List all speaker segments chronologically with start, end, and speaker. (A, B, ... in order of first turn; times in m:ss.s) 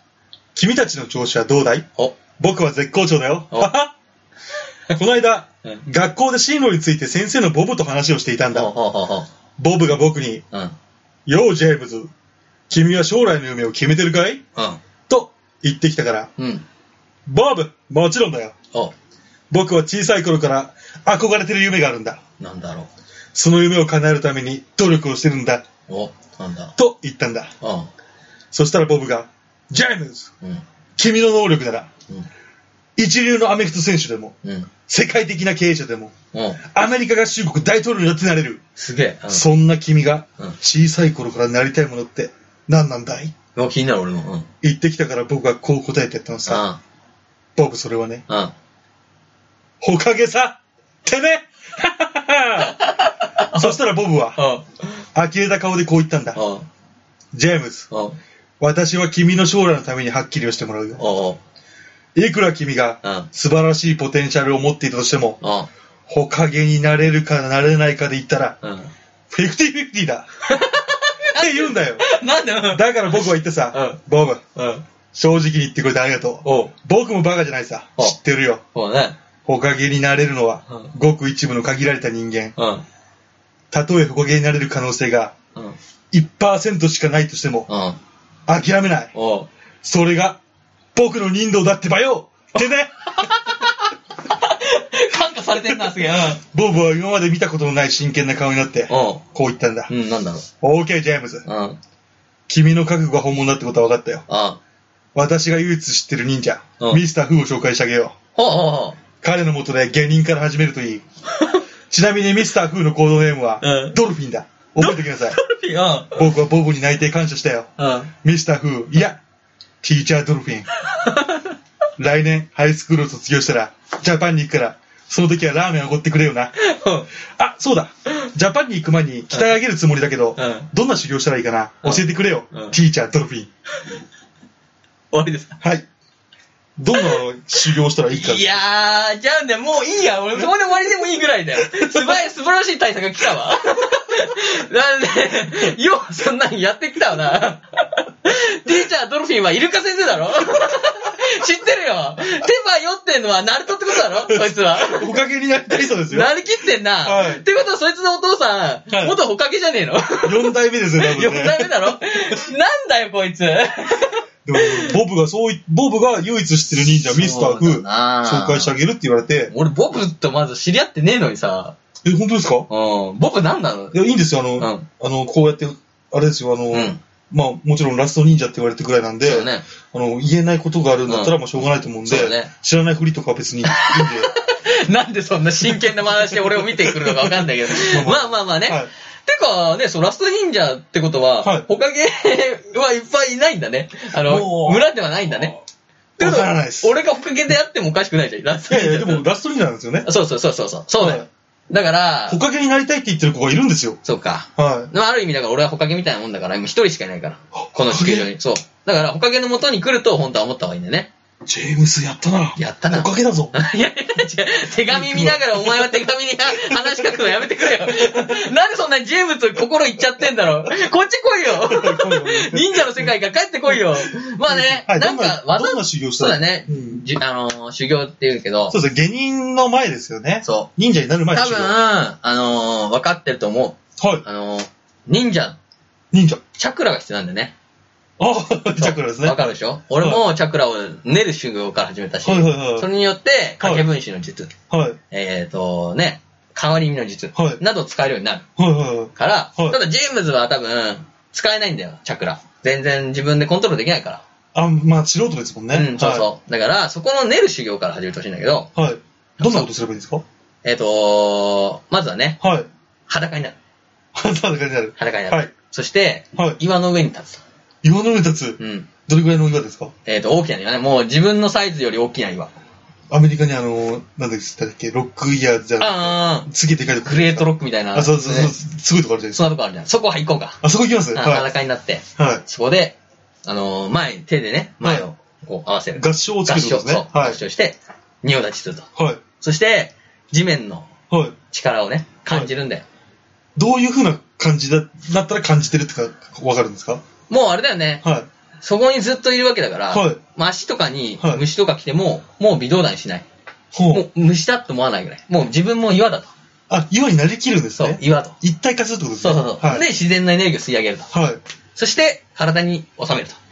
0:00.5-0:03.9 A
0:04.9-0:08.7 A
0:08.5-0:09.3 B
0:09.6-0:10.4 A
0:11.2-0:12.1 A
0:12.7-0:14.4 A
0:15.1-0:16.3 A
0:16.4-0:16.6 B
0:17.2-0:18.5 A
0:19.5-0:22.2 A
0:22.4-0:22.9 B
0:23.3-0:25.6 A
0:25.9-0:26.7 B
0:26.8-0:27.5 A
0:27.6-0:27.9 B
0:28.5-0:30.3 A
0:31.0-0:31.9 A
0:33.0-0:34.3 A
0:34.4-0:34.7 B
0:34.9-0:36.1 A
0:36.3-0:36.6 B
0:36.6-0:38.6 A
0:38.8-0:39.4 B
0:39.3-0:43.3 A
0:43.6-0:44.5 B
0:44.6-0:46.7 A
0:46.5-0:46.8 B
0:47.6-0:48.2 A
0:48.3-0:48.5 B
0:49.8-0:52.8 A
0:52.6-0:53.8 B
0:53.5-0:54.4 A
0:54.4-0:55.0 B
0:55.1-0:56.4 A
0:56.3-0:56.7 B
0:57.3-0:57.9 A
0:57.9-0:58.2 B
0:58.6-1:01.0 A
1:01.0-1:01.4 B
1:02.1-1:05.4 A
1:03.0-1:03.3 B
1:05.4-1:05.7 B
1:06.1-1:08.6 A
1:08.6-1:08.9 B
1:09.3-1:10.2 A
1:10.5-1:14.0 B
1:11.3-1:12.0 A
1:12.7-1:14.4 A
1:14.6-1:14.8 B
1:15.1-1:18.6 A
1:16.4-1:16.7 B
1:18.7-1:19.2 B
1:19.4-1:22.6 A
1:22.6-1:22.8 B
1:23.7-1:25.4 A
1:26.1-1:27.7 A
1:27.7-1:28.0 B
1:28.5-1:29.1 A
1:29.1-1:29.5 B
1:29.8-1:30.4 A
1:30.9-1:33.6 A
1:33.1-1:36.4 B
1:35.7-1:39.9 A
1:38.9-1:39.2 B
1:39.9-1:40.5 B
1:40.6-1:41.4 A
1:41.4-1:41.8 B
1:42.5-1:44.2 A
1:44.3-1:44.6 B
1:45.1-1:48.1 A
1:48.3-1:49.0 B
1:49.2-1:51.0 A
1:51.3-1:51.6 B
1:51.9-1:55.4 A
1:53.6-1:54.0 B
1:54.8-1:56.2 B
1:56.1-1:59.2 A
1:57.8-1:58.1 B
1:59.8-2:00.7 A
2:00.9-2:01.5 B
2:02.0-2:06.5 A
2:06.6-2:07.1 B
2:07.3-2:13.5 A
2:10.4-2:10.7 B
2:11.8-2:12.7 B
2:15.1-2:15.6 B
2:15.6-2:15.8 A
2:16.8-2:18.5 A
2:18.1-2:35.2 B
2:21.7-2:22.1 A
2:34.2-2:36.3 A
2:35.7-2:45.0 B
2:37.0-2:37.4 A
2:38.9-2:39.2 A
2:40.2-2:41.7 A
2:44.4-2:49.5 A
2:47.0-2:48.7 B
2:49.5-2:51.8 B
2:52.0-2:52.7 A
2:52.7-2:54.0 B
2:53.9-3:04.3 A
2:54.6-2:54.9 B
2:56.7-2:57.0 B
2:59.2-2:59.7 B
3:01.1-3:01.4 B
3:02.0-3:02.5 B
3:03.6-3:15.5 B
3:05.7-3:08.9 A
3:14.2-3:14.9 A
3:16.2-3:19.2 B
3:16.2-3:16.9 A
3:18.7-3:20.1 A
3:20.0-3:22.4 B
3:21.0-3:21.2 A
3:22.3-3:24.0 A
3:24.0-3:31.1 B
3:24.6-3:24.9 A
3:27.7-3:28.3 A
3:31.5-3:33.5 A
3:32.6-3:48.8 B
3:34.9-3:35.9 A
3:36.6-3:38.4 A
3:41.6-3:43.1 A
3:43.7-3:47.0 A
3:48.7-3:51.8 A
3:50.4-3:50.7 B
3:51.3-3:55.6 B
3:54.0-3:54.2 A
3:56.1-3:56.4 A
3:56.6-3:57.5 B
3:58.2-3:59.5 A
3:58.8-4:04.5 B
4:02.2-4:02.9 A
4:03.6-4:03.8 A
4:04.7-4:05.0 A
4:05.1-4:08.4 B
4:07.3-4:07.6 A
4:08.6-4:09.8 A
4:09.2-4:14.2 B
4:14.5-4:16.3 A
4:15.7-4:18.7 B
4:18.8-4:20.2 A
4:19.4-4:19.7 B
4:20.6-4:22.4 B
4:22.4-4:22.7 A
4:23.1-4:23.6 B
4:24.1-4:25.5 A
4:25.0-4:27.4 B
4:27.8-4:29.9 A
4:28.6-4:28.9 B
4:30.0-4:32.5 B
4:33.1-4:39.4 A
4:35.8-4:36.5 B
4:37.0-4:38.5 B
4:39.3-4:40.6 B
4:40.6-4:41.5 A
4:41.1-4:48.9 B
4:42.2-4:42.4 A
4:44.8-4:45.1 A
4:46.0-4:47.4 A
4:49.0-4:49.2 A
4:49.4-4:50.9 B
4:51.1-4:51.4 A
4:51.5-4:52.8 B
4:53.6-4:57.0 A
4:57.3-4:58.0 B
4:58.6-5:03.2 B
4:59.9-5:00.2 A
5:03.7-5:04.0 A
5:03.9-5:06.3 B
5:06.7-5:09.8 A
5:07.8-5:08.4 B
5:09.2-5:11.1 B
5:11.1-5:11.4 A
5:11.8-5:13.4 B